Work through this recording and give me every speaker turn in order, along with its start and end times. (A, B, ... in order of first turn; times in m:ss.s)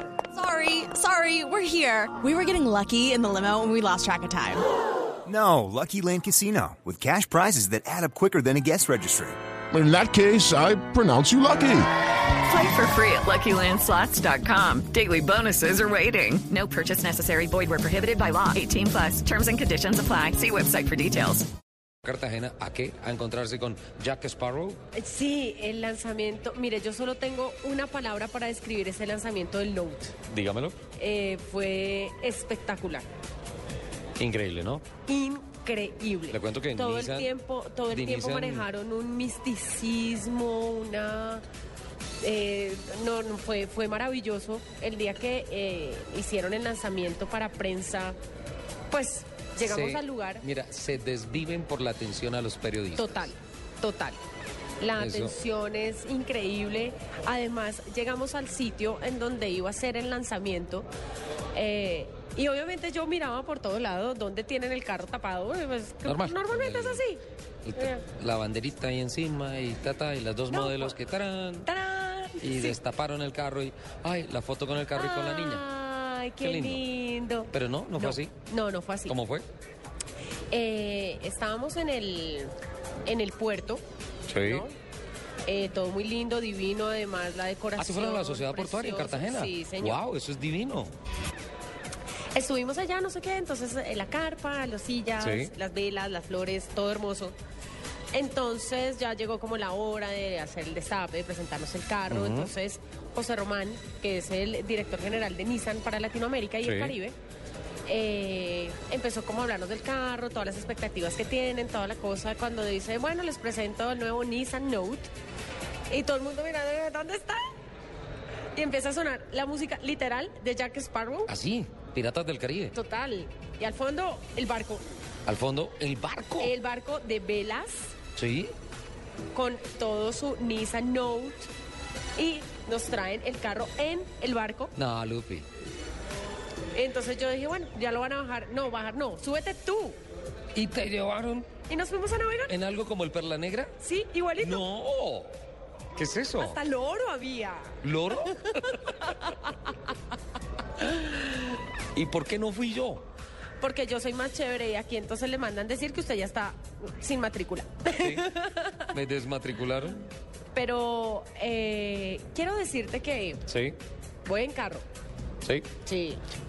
0:00.3-0:04.6 A
0:05.3-0:09.4 B
0:09.7-0:11.9 C
0:12.4-0:21.5 D
0:22.0-0:24.8 E
0:24.9-0:30.2 F
0:30.3-0:30.8 E
0:31.0-0:33.1 F
0:34.2-0:34.8 E
0:35.1-0:41.4 F
0:36.3-0:37.3 E
0:37.9-0:38.7 E
0:42.2-0:48.2 F
0:48.9-0:50.4 F
0:49.6-0:53.3 E
0:53.0-0:54.2 F
0:54.8-1:00.9 F
0:55.0-0:55.3 E
1:01.5-1:07.2 F
1:06.0-1:07.0 E
1:07.6-1:11.7 E
1:10.5-1:11.0 F
1:11.6-1:12.8 F
1:12.4-1:15.6 E
1:15.0-1:19.2 F
1:16.4-1:16.8 E
1:17.5-1:18.3 E
1:19.1-1:19.5 E
1:20.5-1:22.5 F
1:23.1-1:23.8 F
1:24.3-1:24.7 E
1:24.4-1:24.8 F
1:25.5-1:30.0 F
1:27.8-1:30.9 E
1:32.3-1:37.4 F
1:35.2-1:35.5 E
1:38.1-1:47.2 F
1:42.1-1:42.5 E
1:46.6-1:47.0 E
1:47.9-1:55.1 F
1:55.9-1:57.4 F
1:58.6-2:01.3 F
2:01.3-2:02.8 E
2:02.7-2:04.8 F
2:05.3-2:06.5 E
2:06.4-2:08.0 F
2:08.2-2:08.5 E
2:09.3-2:11.5 F
2:12.2-2:14.7 F
2:14.8-2:15.5 E
2:16.7-2:20.0 F
2:20.5-2:21.5 E
2:21.7-2:22.5 F
2:22.5-2:23.7 E
2:23.8-2:24.6 F
2:24.4-2:25.3 E
2:26.0-2:26.6 E
2:26.4-2:27.8 F
2:27.8-2:29.5 E
2:28.5-2:29.3 F
2:30.8-2:31.4 E
2:31.9-2:33.0 E
2:33.6-2:38.8 F
2:37.9-2:38.3 E
2:38.9-2:40.0 E
2:40.5-2:43.4 F
2:43.5-2:43.8 E
2:44.2-2:44.9 F
2:45.8-2:46.2 F